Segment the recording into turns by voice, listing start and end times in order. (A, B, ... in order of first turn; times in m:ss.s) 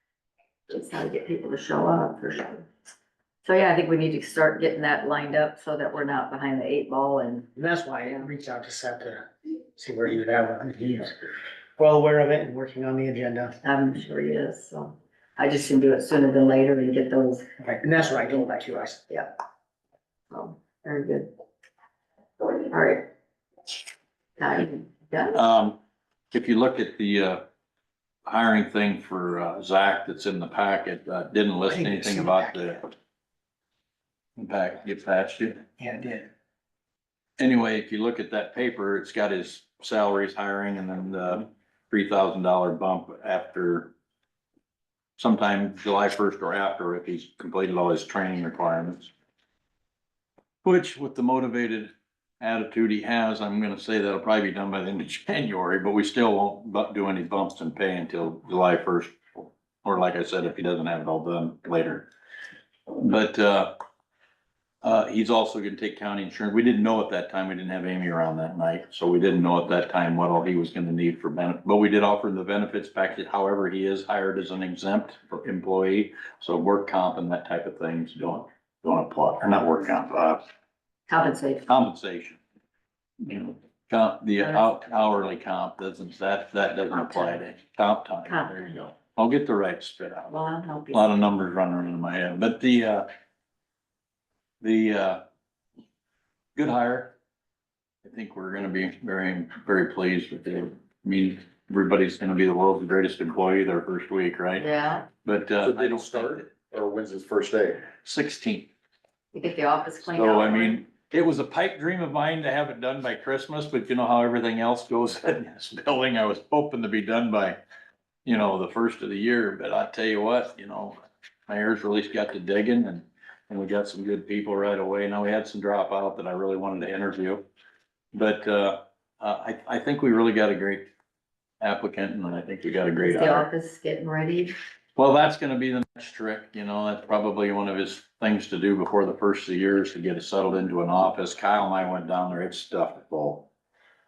0:00.7-0:02.7 A
0:03.4-0:07.5 A
0:07.6-0:11.2 B
0:08.0-0:08.3 A
0:11.8-0:13.5 B
0:13.6-0:19.3 A
0:17.6-0:19.0 B
0:20.3-0:21.3 A
0:22.4-0:23.1 A
0:24.4-0:25.4 A
0:25.3-0:25.8 C
0:26.3-0:27.4 C
0:28.2-0:32.9 C
0:31.7-0:32.8 B
0:34.4-0:35.6 C
0:35.8-0:36.3 B
0:37.4-0:43.9 C
0:45.2-0:49.1 C
0:50.6-1:02.1 C
1:02.9-1:03.7 C
1:04.8-1:20.4 C
1:21.1-1:21.7 A
1:21.7-1:22.4 C
1:23.2-1:30.3 C
1:24.4-1:24.6 A
1:28.2-1:28.6 A
1:30.3-1:31.0 A
1:30.9-1:33.1 C
1:34.6-1:35.2 C
1:36.6-1:37.1 C
1:38.0-1:44.6 C
1:44.6-1:45.1 A
1:45.2-1:46.5 C
1:45.6-1:47.9 D
1:48.0-1:48.7 C
1:49.3-1:50.8 A
1:50.0-1:57.6 C
1:58.2-2:07.4 C
2:08.1-2:10.9 C
2:11.6-2:13.5 C
2:13.0-2:14.5 A
2:15.0-2:23.5 C